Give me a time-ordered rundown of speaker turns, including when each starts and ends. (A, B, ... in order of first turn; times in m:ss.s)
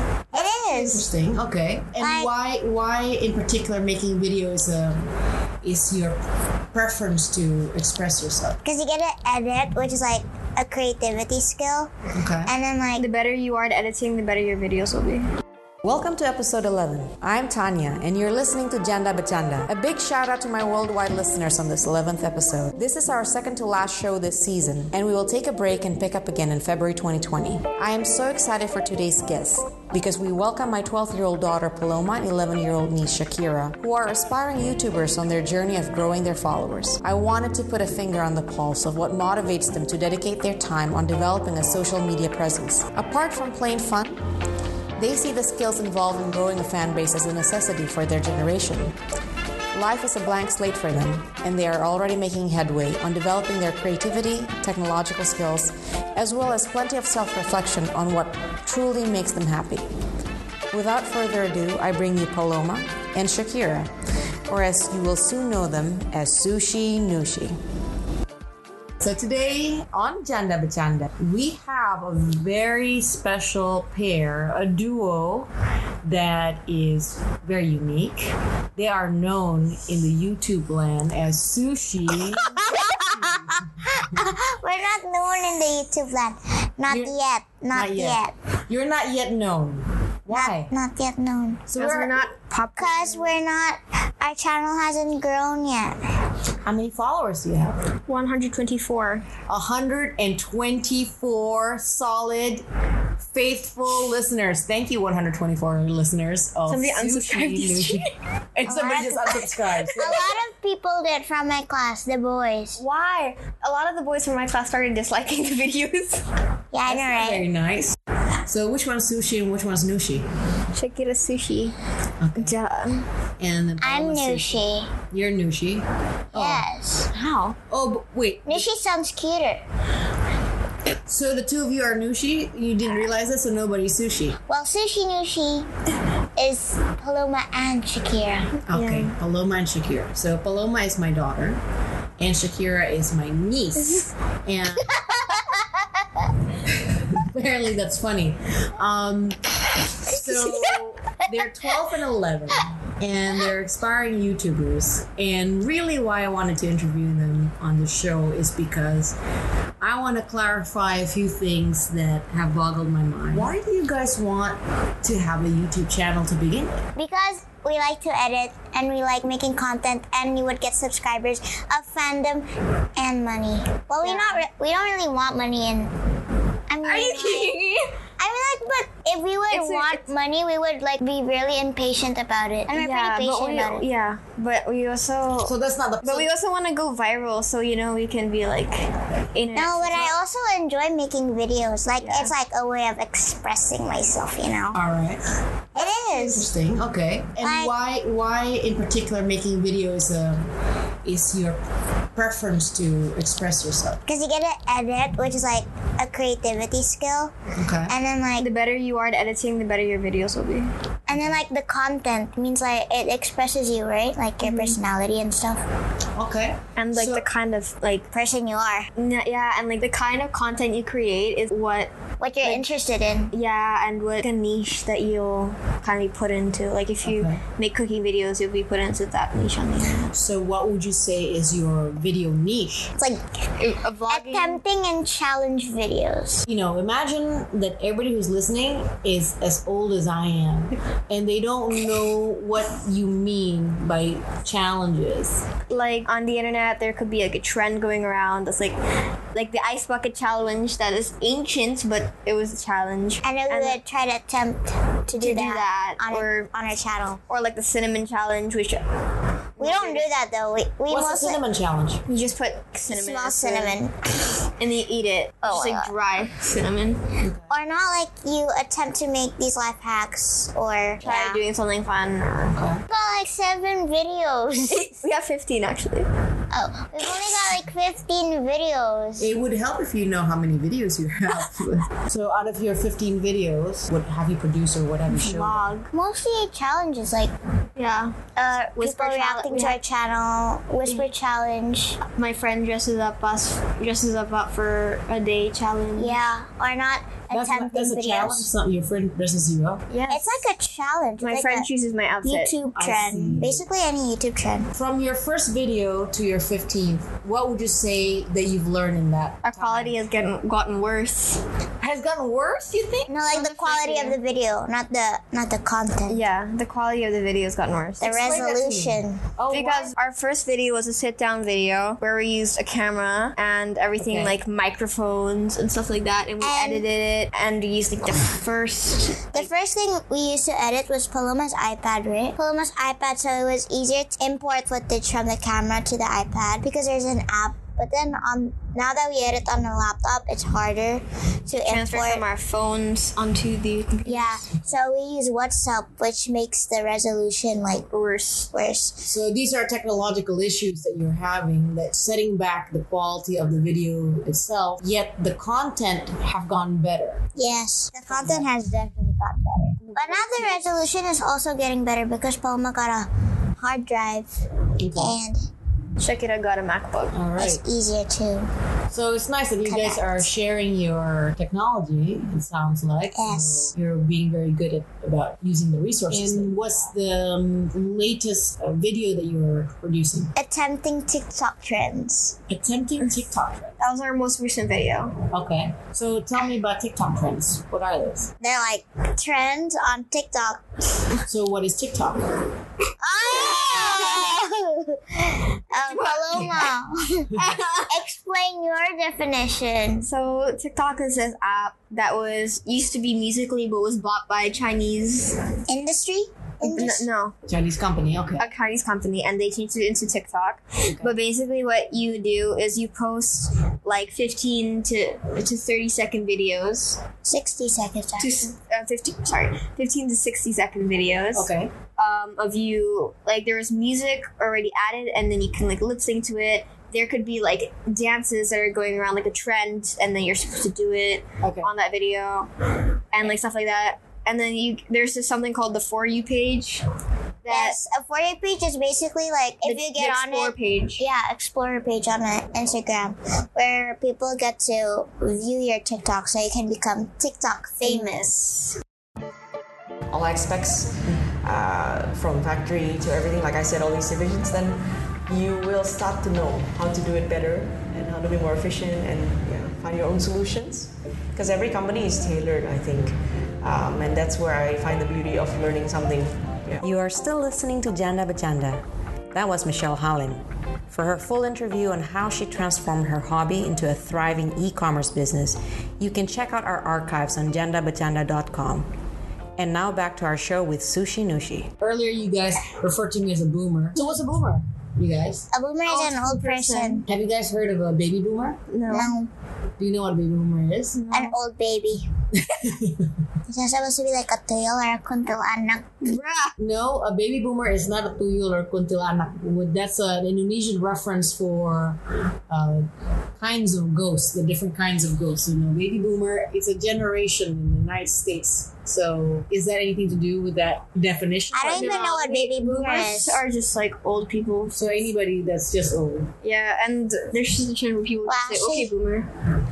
0:00.3-0:01.1 A
0:00.3-0:05.1 B
0:02.0-0:02.3 A
0:05.6-0:06.2 B
0:06.7-0:08.6 B
0:08.6-0:11.9 A
0:12.2-0:12.5 B
0:12.4-0:13.1 A
0:13.0-0:15.3 C
0:15.8-0:44.2 D
0:45.0-0:49.0 D
0:49.7-0:59.9 D
1:00.7-1:03.9 D
1:04.5-1:07.6 D
1:09.0-1:15.5 B
1:16.0-1:23.6 B
1:22.4-1:28.3 A
1:26.9-1:27.2 B
1:27.7-1:30.7 B
1:30.3-1:31.7 A
1:31.7-1:32.3 B
1:31.8-1:33.4 C
1:32.8-1:36.0 A
1:36.6-1:37.9 B
1:38.1-1:39.3 C
1:39.5-1:42.6 B
1:43.2-1:50.3 B
1:46.7-1:48.1 C
1:48.7-1:52.8 A
1:52.8-1:56.2 C
1:56.7-1:57.4 A
1:56.9-2:00.3 B
2:00.7-2:01.8 C
2:02.2-2:02.5 B
2:02.4-2:03.1 C
2:03.4-2:06.6 B
2:03.8-2:04.9 A
2:06.3-2:07.1 A
2:07.1-2:07.6 C
2:07.7-2:08.7 B
2:08.5-2:09.6 A
2:11.1-2:14.4 B
2:14.5-2:15.7 A
2:16.4-2:18.5 A
2:18.7-2:21.6 B
2:18.7-2:19.1 C
2:22.2-2:24.9 B
2:25.2-2:25.5 A
2:26.7-2:29.5 B
2:30.0-2:39.2 B
2:30.1-2:30.8 A
2:39.8-2:46.8 B
2:47.0-2:55.9 A
2:54.0-2:54.4 C
2:56.7-2:57.5 A
2:56.8-2:57.9 C
2:58.2-3:03.8 A
2:59.5-3:00.0 C
3:02.7-3:10.2 C
3:05.4-3:06.3 B
3:09.5-3:14.8 A
3:12.0-3:12.3 C
3:14.8-3:15.2 B
3:15.8-3:16.5 A
3:15.8-3:20.5 B
3:17.4-3:17.7 A
3:21.0-3:21.6 B
3:22.2-3:24.0 B
3:24.1-3:27.3 A
3:27.6-3:28.0 B
3:27.9-3:28.5 A
3:28.4-3:30.7 C
3:31.1-3:35.6 A
3:31.1-3:31.4 B
3:34.4-3:34.8 C
3:36.2-3:37.2 B
3:36.8-3:38.1 C
3:38.1-3:38.9 A
3:39.0-3:42.8 C
3:42.2-3:43.3 A
3:43.3-3:50.1 C
3:47.0-3:47.4 B
3:50.1-3:52.9 B
3:53.6-3:54.6 C
3:54.1-3:56.4 A
3:56.5-4:05.5 B
4:05.7-4:08.8 C
4:09.3-4:13.8 C
4:13.2-4:17.2 A
4:15.2-4:16.5 C
4:17.3-4:18.9 C
4:19.6-4:20.1 C
4:19.6-4:21.4 A
4:20.9-4:22.0 B
4:22.1-4:23.8 C
4:22.9-4:24.0 A
4:24.5-4:27.1 C
4:25.4-4:25.9 A
4:27.2-4:27.5 B
4:27.5-4:31.4 A
4:31.0-4:32.6 C
4:32.6-4:32.8 B
4:32.9-4:35.0 A
4:34.7-4:36.1 C
4:36.5-4:39.3 A
4:39.2-4:45.7 B
4:45.1-4:45.9 C
4:45.9-4:47.3 A
4:47.8-4:48.1 C
4:48.4-4:52.0 A
4:48.8-4:49.8 C
4:52.2-4:56.4 C
4:56.0-4:58.5 A
4:57.3-4:59.8 B
4:59.9-5:00.4 C
5:00.1-5:01.7 A
5:01.2-5:02.5 C
5:02.2-5:04.7 A
5:02.7-5:03.6 B
5:04.8-5:10.0 B
5:09.4-5:11.4 C
5:11.8-5:13.1 B
5:13.1-5:16.2 A
5:13.3-5:14.2 C
5:16.1-5:18.2 C
5:18.0-5:19.2 A
5:18.1-5:19.9 B
5:19.5-5:29.5 C
5:24.0-5:24.4 B
5:26.4-5:26.9 A
5:29.3-5:42.2 A
5:41.6-5:44.5 C
5:44.0-5:47.9 A
5:47.9-5:48.5 C
5:48.5-5:49.1 A
5:49.0-5:57.2 B
5:57.4-6:04.3 A
5:58.1-5:58.5 B
5:59.9-6:00.6 C
6:04.8-6:05.2 B
6:05.0-6:05.4 A
6:06.0-6:07.2 C
6:07.1-6:07.6 B
6:07.4-6:08.5 A
6:08.9-6:20.3 B
6:09.6-6:10.2 A
6:13.1-6:13.8 A
6:16.1-6:16.5 C
6:20.4-6:22.4 A
6:22.5-6:23.8 B
6:23.8-6:25.2 C
6:25.3-6:28.3 B
6:28.4-6:30.6 A
6:31.2-6:32.5 B
6:33.0-6:37.3 A
6:33.4-6:34.4 C
6:35.9-6:36.8 C
6:37.4-6:38.0 C
6:37.9-6:40.1 A
6:40.0-6:45.4 C
6:45.7-6:47.1 A
6:46.6-6:47.4 C
6:47.5-6:48.5 B
6:48.4-6:57.0 C
6:50.8-6:51.1 B
6:57.2-6:58.5 A
6:58.2-7:12.5 C
7:01.3-7:01.7 B
7:11.4-7:11.7 B
7:13.1-7:16.8 C
7:17.4-7:17.8 C
7:17.5-7:28.4 A
7:19.6-7:21.0 C
7:27.8-7:28.7 C
7:30.1-7:46.8 E
7:46.8-7:58.9 D
7:59.6-8:01.7 D
8:01.8-8:05.5 B
8:05.5-8:07.0 A
8:05.9-8:07.1 C
8:07.1-8:08.6 B
8:08.7-8:09.2 C
8:08.9-8:09.3 A
8:09.8-8:11.0 B
8:10.9-8:11.4 C
8:11.1-8:12.1 A
8:12.4-8:13.1 B
8:13.5-8:16.1 A
8:16.0-8:16.5 C
8:16.6-8:22.8 B
8:23.4-8:32.0 B
8:31.5-8:33.4 A
8:31.6-8:34.8 C
8:34.7-8:36.3 B
8:36.4-8:39.3 C
8:38.3-8:38.9 A